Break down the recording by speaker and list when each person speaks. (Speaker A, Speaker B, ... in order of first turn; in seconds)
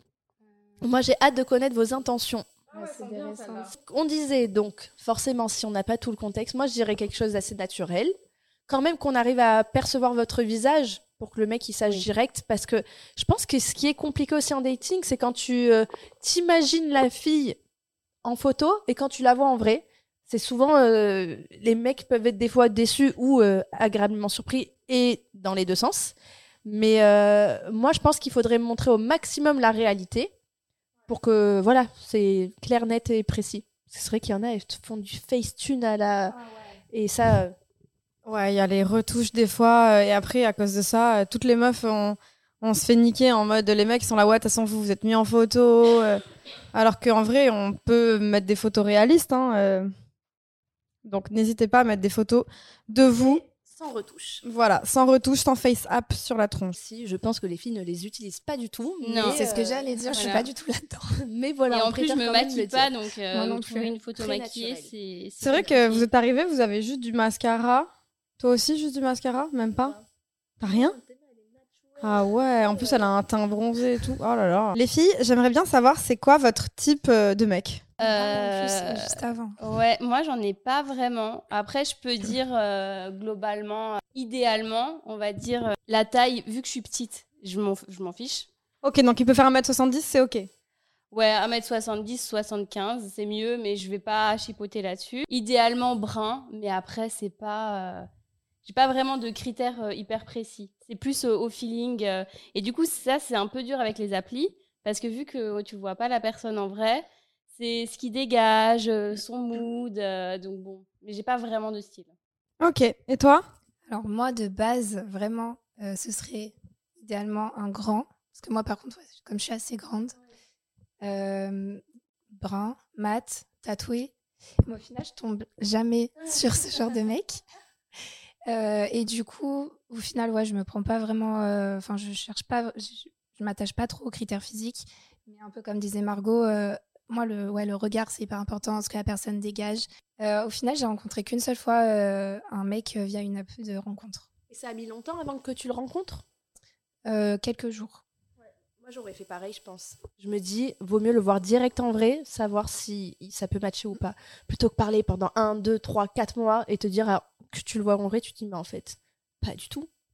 Speaker A: 0.8-2.5, 3.7-8.2, 8.7-17.6, 18.2-26.1, 26.6-30.3, 31.1-36.4, 36.9-37.5, 53.1-54.4, 56.7-60.0, 61.2-62.9, 64.2-64.9, 70.6-73.1, 144.5-146.2, 148.8-159.9
Speaker B: 2.7-3.7, 59.2-61.2, 63.3-63.9, 78.0-79.5, 113.9-120.2, 121.0-124.1, 124.6-127.4, 128.4-144.3, 147.0-148.0
Speaker C: 3.0-3.4, 38.2-46.2, 46.7-49.9, 51.0-53.4, 54.4-56.8, 65.4-70.0, 70.6-71.0, 72.0-77.8, 88.8-90.5, 112.6-113.4
Speaker D: 59.0-59.4, 60.1-60.5, 61.7-66.1, 78.0-88.5, 91.1-98.1, 98.6-112.1